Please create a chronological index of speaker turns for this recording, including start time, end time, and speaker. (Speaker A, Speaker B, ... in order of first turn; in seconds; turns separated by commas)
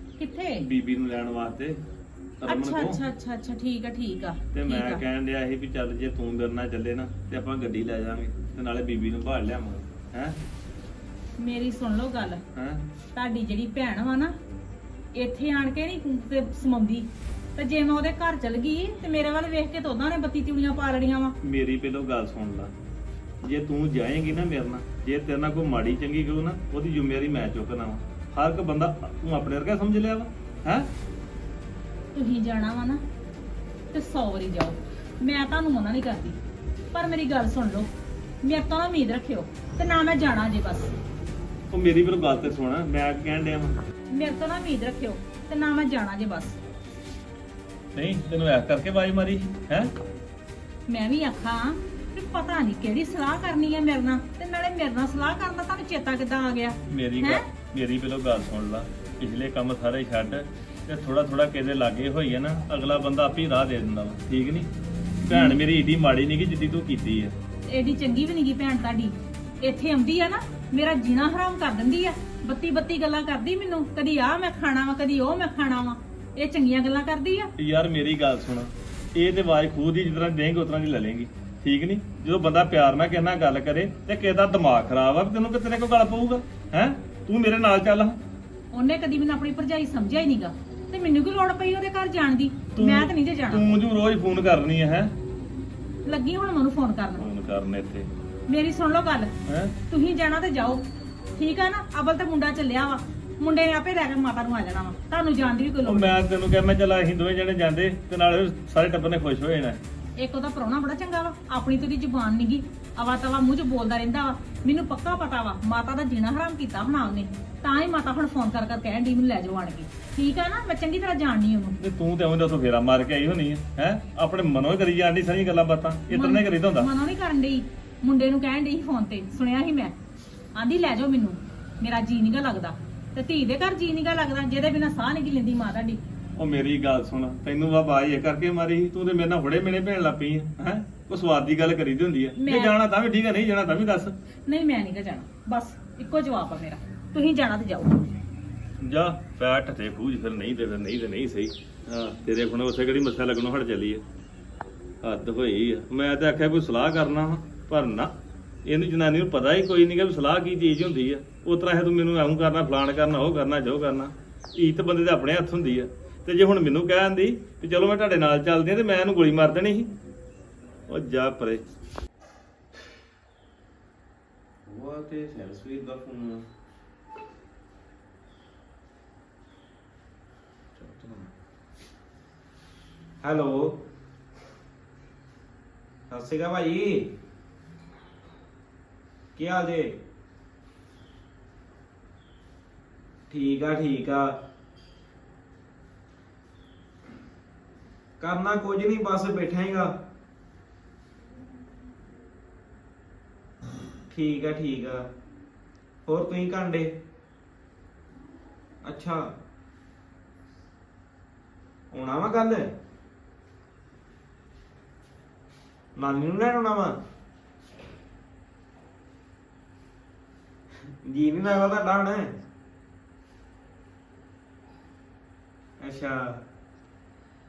Speaker A: 0.2-0.6, Speaker B: 0.6-1.8, Speaker B: 2.4-3.0, Speaker A: 2.5-5.0, Speaker B: 4.5-10.4, Speaker A: 11.4-12.4, Speaker B: 12.5-12.8, Speaker A: 13.1-14.3, Speaker A: 15.1-21.4, Speaker B: 21.4-22.7, Speaker B: 23.4-30.9, Speaker A: 32.1-33.0, Speaker A: 33.9-36.4, Speaker A: 36.9-37.9, Speaker A: 38.4-40.9, Speaker B: 41.7-43.8, Speaker A: 44.1-46.6, Speaker B: 47.9-49.9, Speaker A: 50.9-57.4, Speaker B: 56.9-64.7, Speaker B: 65.2-67.3, Speaker A: 65.3-65.6, Speaker A: 67.7-77.5, Speaker B: 77.6-88.2, Speaker A: 88.7-93.7, Speaker B: 92.8-95.1, Speaker A: 96.0-97.3, Speaker B: 97.2-98.1, Speaker A: 98.5-99.3, Speaker B: 99.5-99.8, Speaker A: 99.9-100.8, Speaker A: 101.4-106.2, Speaker B: 105.8-109.8, Speaker A: 110.2-121.8, Speaker B: 121.8-126.9, Speaker A: 126.1-129.9, Speaker A: 130.5-136.0, Speaker B: 136.3-144.2, Speaker A: 142.3-142.7, Speaker A: 144.5-148.0, Speaker B: 148.8-154.0, Speaker B: 155.0-158.1, Speaker B: 158.6-169.9, Speaker B: 170.9-171.6, Speaker C: 174.7-176.4, Speaker C: 180.8-181.3, Speaker C: 183.2-183.8, Speaker C: 186.1-187.1, Speaker C: 189.3-190.0, Speaker C: 193.3-194.3, Speaker C: 198.2-199.9, Speaker C: 204.1-205.0, Speaker C: 206.1-206.9, Speaker C: 208.8-209.3, Speaker C: 211.9-212.7, Speaker C: 215.9-216.9, Speaker C: 221.0-222.3, Speaker C: 225.8-226.4